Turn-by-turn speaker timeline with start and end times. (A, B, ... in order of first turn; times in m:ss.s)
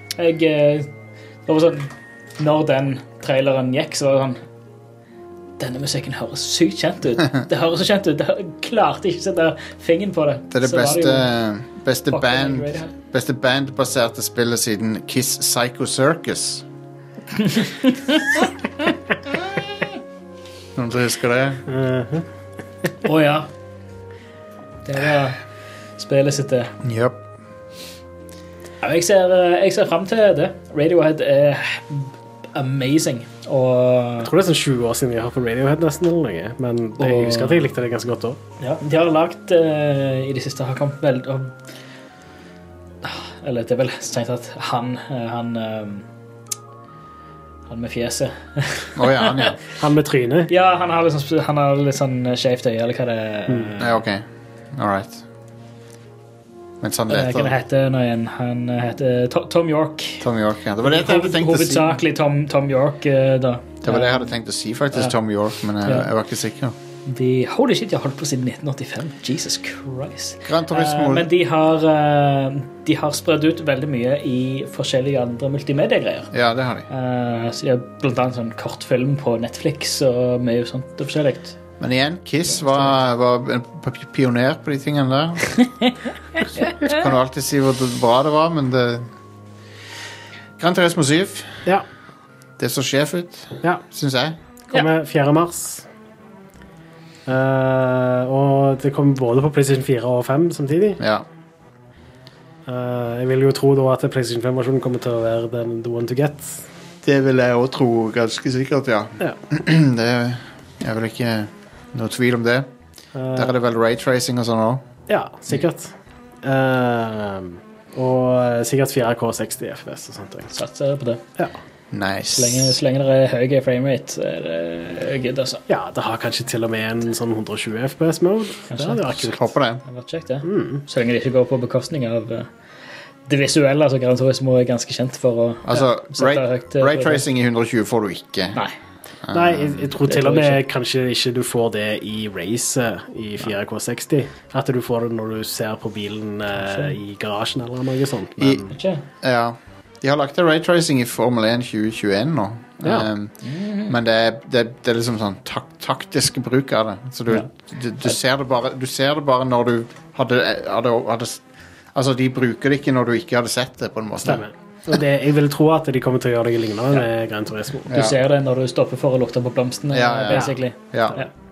0:00.2-0:00.9 A
0:01.5-0:04.4 A
0:05.6-0:11.3 A
0:10.5-0:16.6 B
0:12.1-0:12.9 A
0:17.4-0:18.2 A
0:20.8-0:21.6 B
0:21.7-0:22.3 C
0:23.0-0:23.5 A
0:24.8-0:25.4 A
0:26.0-0:26.7 A
0:26.8-0:27.2 B
0:28.8-0:34.3 A
0:34.2-0:38.4 C
0:37.0-0:37.7 A
0:38.6-0:41.5 A
0:43.0-0:46.1 A
0:47.7-0:49.6 A
0:49.0-0:49.6 B
0:49.8-0:50.5 C
0:50.5-0:54.0 A
0:53.8-0:55.2 B
0:56.8-0:57.6 B
0:57.1-1:00.2 A
1:00.2-1:02.0 B
1:00.8-1:04.3 A
1:03.8-1:06.8 B
1:07.1-1:16.3 A
1:10.4-1:11.3 B
1:16.3-1:16.9 B
1:16.9-1:21.6 A
1:21.8-1:25.6 B
1:26.6-1:29.1 B
1:30.6-1:31.6 B
1:32.6-1:34.4 B
1:34.7-1:35.9 C
1:37.3-1:41.0 C
1:41.0-1:41.3 B
1:42.7-1:46.7 C
1:47.0-1:52.7 B
1:53.2-1:53.6 C
1:53.3-1:54.8 B
1:55.1-2:00.5 C
2:00.5-2:01.2 A
2:01.9-2:02.8 B
2:02.4-2:05.6 A
2:05.7-2:09.5 C
2:08.7-2:09.2 A
2:09.2-2:09.8 B
2:09.8-2:12.5 A
2:10.4-2:10.8 C
2:13.3-2:17.2 A
2:15.6-2:18.6 B
2:19.2-2:19.8 B
2:19.3-2:28.8 C
2:20.0-2:20.6 A
2:28.4-2:28.6 B
2:28.7-2:29.0 A
2:29.2-2:33.3 B
2:32.8-2:33.1 C
2:33.4-2:33.9 A
2:33.9-2:41.4 B
2:41.9-2:44.4 B
2:44.2-2:47.9 C
2:47.9-2:51.3 A
2:47.9-2:48.2 B
2:49.9-2:51.2 B
2:50.3-2:50.6 C